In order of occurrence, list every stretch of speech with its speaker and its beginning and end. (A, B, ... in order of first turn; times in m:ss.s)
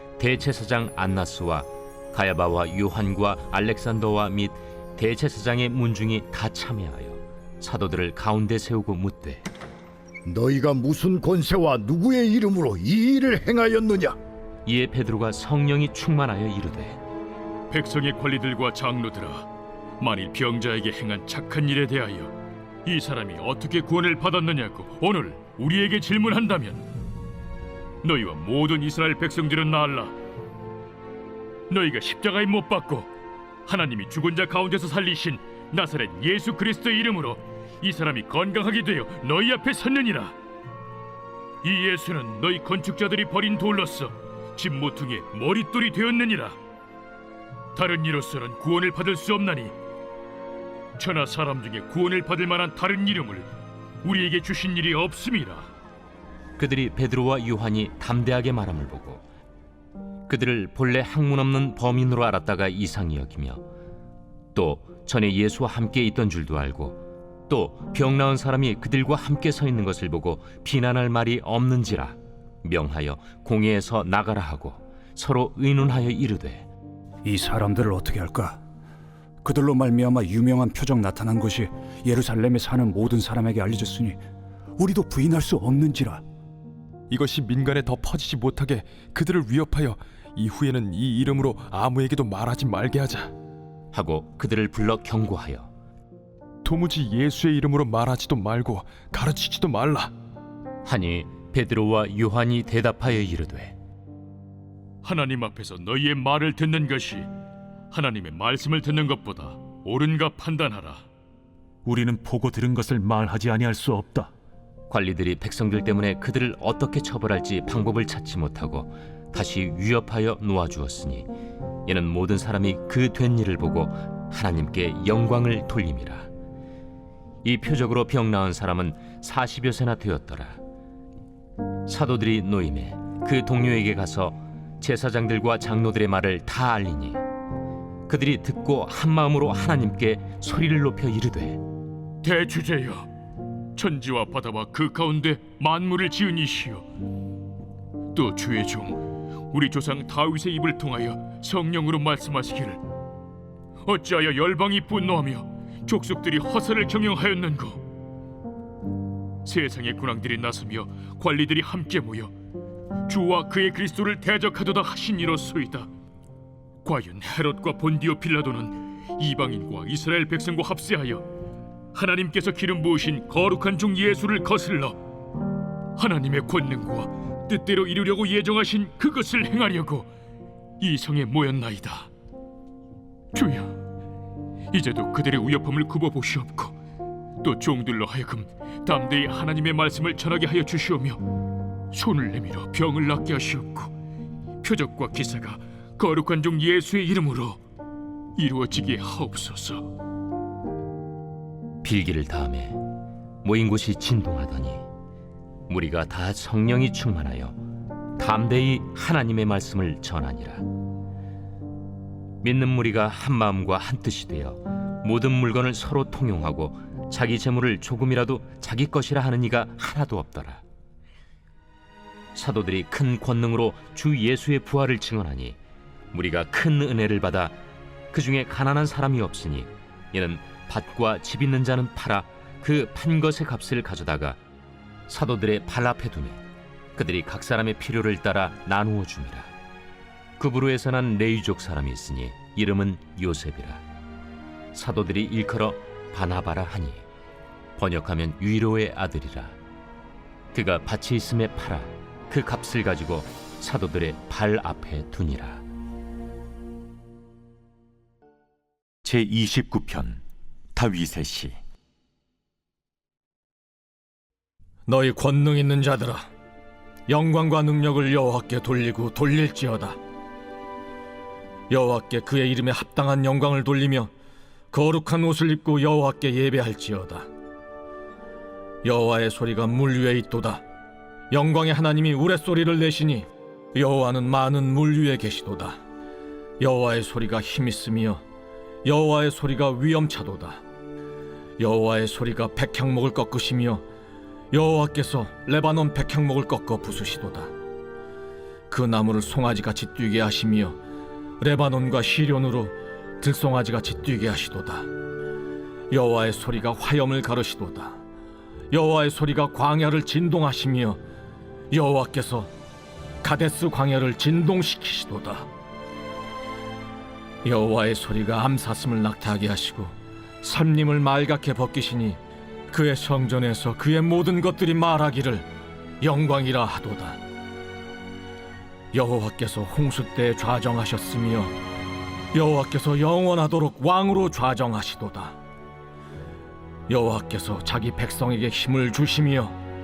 0:00.2-0:09.4 A
0:10.2-0:14.2 B
0:14.6-0:17.0 A
0:17.7-0:19.5 C
0:20.0-0:22.3 C
0:22.8-0:26.8 C
0:28.0-0:30.1 C
0:31.7-0:33.1 C
0:33.6-0:40.3 C
0:41.6-0:46.6 C
0:47.7-0:49.7 C
0:51.0-0:53.5 C
0:54.0-0:55.7 C
0:56.6-0:59.2 A
1:00.3-1:03.6 A
1:04.5-1:16.7 A
1:17.2-1:18.6 D
1:19.4-1:24.2 D
1:24.8-1:26.2 D
1:27.1-1:33.3 E
1:33.9-1:35.7 A
1:36.6-1:40.1 E
1:40.8-1:43.8 A
1:45.0-1:47.3 C
1:47.9-1:51.0 C
1:51.8-1:54.3 F
1:54.9-2:01.3 A
2:01.8-2:06.3 A
2:07.4-2:10.6 A
2:11.8-2:17.2 A
2:18.1-2:21.6 A
2:22.2-2:23.1 C
2:23.8-2:26.8 C
2:28.1-2:32.8 C
2:33.8-2:37.8 C
2:39.4-2:42.3 C
2:43.1-2:45.9 C
2:46.8-2:51.2 C
2:51.9-2:55.0 C
2:56.0-3:00.1 C
3:00.8-3:02.1 C
3:03.3-3:03.7 C
3:04.7-3:06.7 C
3:07.4-3:11.2 C
3:11.9-3:13.9 C
3:14.6-3:17.6 C
3:18.4-3:19.8 C
3:21.8-3:22.8 A
3:23.4-3:24.8 A
3:25.7-3:27.6 A
3:28.2-3:30.6 A
3:32.4-3:40.6 A
3:42.3-3:45.6 A
3:46.1-3:47.6 A
3:48.1-3:54.4 A
3:55.1-3:56.4 A
3:57.0-3:59.5 A
4:00.4-4:03.8 A
4:04.7-4:07.0 A
4:07.8-4:09.6 A
4:10.5-4:15.6 A
4:19.0-4:20.2 G
4:20.7-4:21.6 G
4:24.9-4:26.3 H
4:27.1-4:30.0 H
4:31.7-4:34.1 H
4:34.7-4:37.3 H
4:38.8-4:40.6 H
4:41.3-4:45.8 H
4:46.6-4:48.2 H
4:48.8-4:50.6 H
4:51.6-4:53.8 H
4:54.5-4:57.5 H
4:58.7-5:00.8 H
5:01.4-5:04.9 H
5:05.9-5:08.0 H
5:08.7-5:11.0 H
5:11.7-5:12.5 H
5:13.2-5:15.5 H
5:17.4-5:22.2 H
5:22.7-5:25.4 H
5:26.0-5:27.2 H
5:28.9-5:31.6 H
5:32.3-5:35.4 H
5:36.9-5:39.6 H